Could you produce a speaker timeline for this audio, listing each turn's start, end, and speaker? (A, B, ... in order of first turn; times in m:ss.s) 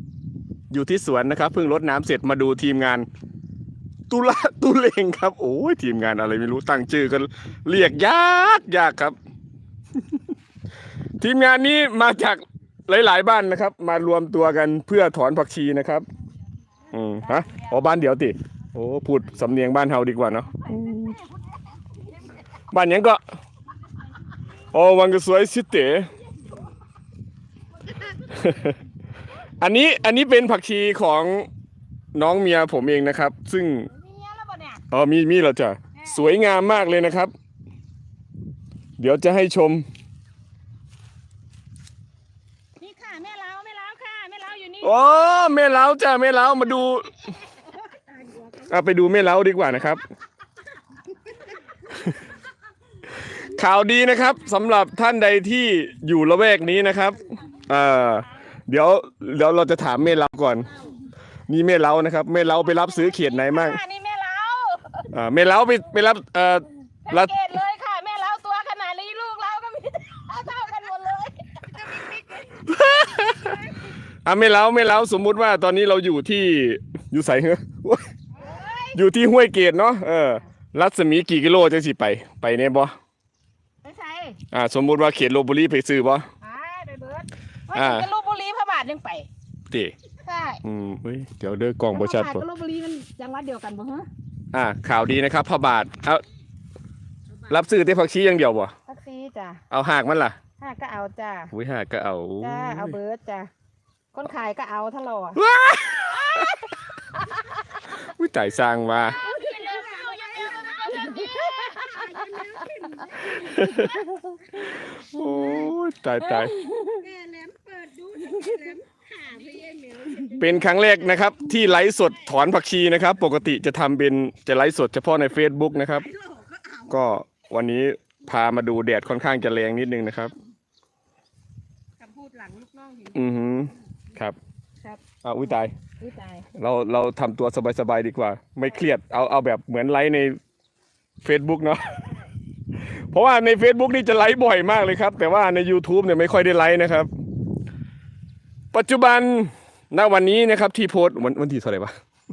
0:00.7-0:03.1 A
0:04.1-0:09.2 A
0:11.2-0:16.1 A
0:16.9-0:21.2 A
0:17.2-0:17.7 B
0:20.6-0:21.2 B
0:22.7-0:23.2 A
0:24.7-0:26.1 A
0:28.2-0:28.8 A
0:29.6-0:31.5 A
0:32.2-0:33.9 A
0:33.9-0:34.8 B
0:34.9-0:37.3 A
0:36.0-0:36.3 B
0:39.0-0:39.8 A
0:42.8-0:45.4 B
0:44.8-0:47.3 A
0:48.3-0:48.5 C
0:48.6-0:50.0 A
0:53.2-1:00.7 A
1:01.5-1:03.8 A
1:02.7-1:05.1 B
1:05.1-1:07.3 A
1:07.0-1:13.9 B
1:12.7-1:13.6 A
1:14.2-1:18.1 A
1:18.4-1:19.0 B
1:18.9-1:23.0 A
1:23.8-1:24.4 B
1:24.5-1:26.3 A
1:26.4-1:29.3 B
1:27.7-1:28.1 A
1:30.2-1:30.6 B
1:30.6-1:32.4 A
1:31.9-1:34.1 B
1:34.5-1:36.2 A
1:37.5-1:38.7 A
1:38.9-1:39.6 B
1:39.7-1:40.4 A
1:40.6-1:41.5 B
1:41.5-1:43.0 A
1:42.4-1:43.5 B
1:44.1-1:45.4 B
1:45.4-1:46.7 A
1:47.8-1:49.2 A
1:49.2-1:53.9 C
1:49.2-1:54.4 B
1:53.3-1:54.0 A
1:54.7-1:56.6 A
1:56.2-1:57.0 B
1:56.6-2:00.6 C
2:00.4-2:06.1 A
2:06.1-2:06.9 C
2:06.9-2:10.3 A
2:12.0-2:13.2 C
2:13.1-2:14.4 A
2:15.2-2:15.7 A
2:16.0-2:16.5 B
2:16.6-2:20.4 A
2:21.2-2:22.1 A
2:22.8-2:27.1 A
2:28.7-2:31.9 A